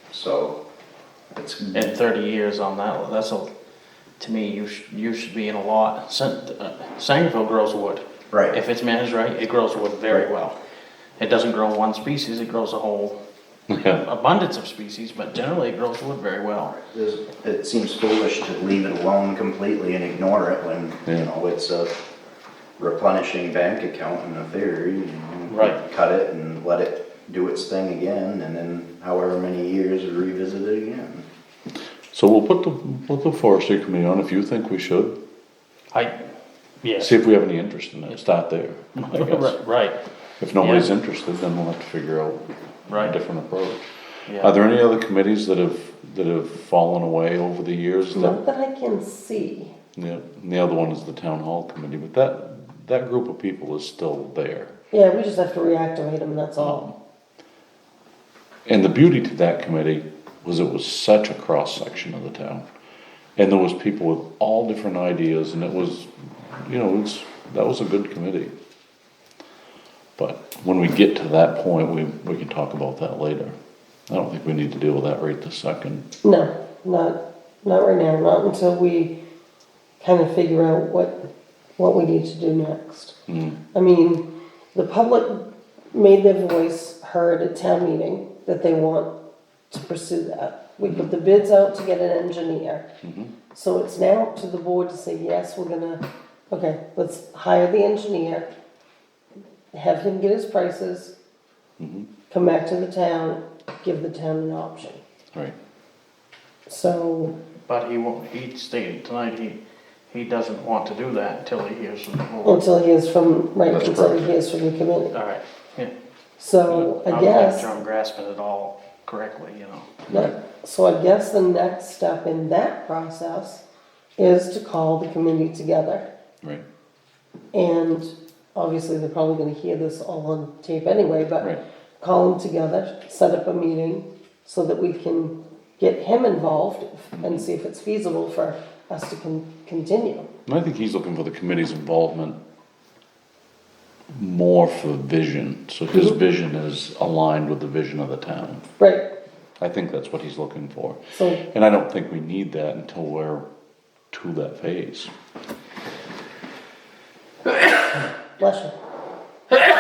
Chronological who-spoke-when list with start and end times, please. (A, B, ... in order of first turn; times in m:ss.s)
0:00.1-0:00.6 A
0:01.3-0:01.9 A
0:01.7-0:03.5 B
0:04.2-0:10.6 B
0:11.2-0:13.2 B
0:13.7-0:14.0 C
0:13.8-0:16.8 B
0:16.8-0:22.0 A
0:22.8-0:31.2 A
0:25.5-0:25.8 B
0:32.1-0:35.2 C
0:35.9-0:36.2 B
0:36.8-0:37.1 B
0:37.0-0:39.6 C
0:39.0-0:40.0 B
0:40.4-0:43.9 C
0:40.6-0:40.9 B
0:42.9-0:43.2 B
0:44.2-0:44.5 B
0:44.4-0:48.4 C
0:48.1-0:49.7 D
0:50.0-0:54.7 C
0:54.9-0:56.8 D
0:56.6-0:56.9 C
0:58.7-1:02.6 C
1:03.4-1:08.5 C
1:10.2-1:13.6 C
1:14.1-1:16.0 C
1:16.2-1:19.2 D
1:20.0-1:21.2 D
1:21.8-1:23.2 D
1:23.3-1:23.6 C
1:23.7-1:29.1 D
1:29.7-1:32.9 D
1:30.8-1:31.1 C
1:33.0-1:33.3 C
1:33.5-1:38.5 D
1:39.7-1:41.1 D
1:41.8-1:42.1 C
1:42.3-1:45.0 D
1:46.7-1:47.4 D
1:47.7-1:49.6 B
1:50.1-1:52.6 B
1:52.4-1:55.1 D
1:53.7-1:54.3 C
1:55.1-1:55.9 B
1:56.4-1:57.7 D
1:56.7-1:57.0 C
1:57.0-1:59.9 B
2:00.1-2:00.3 C
2:00.1-2:03.6 D
2:04.2-2:06.1 D
2:07.5-2:20.3 D
2:17.2-2:17.5 C
2:20.5-2:22.4 C
2:24.1-2:28.7 C
2:25.9-2:26.2 D
2:28.8-2:29.0 D
2:29.6-2:33.4 C
2:31.1-2:31.4 D
2:34.1-2:35.1 C
2:38.4-2:38.8 D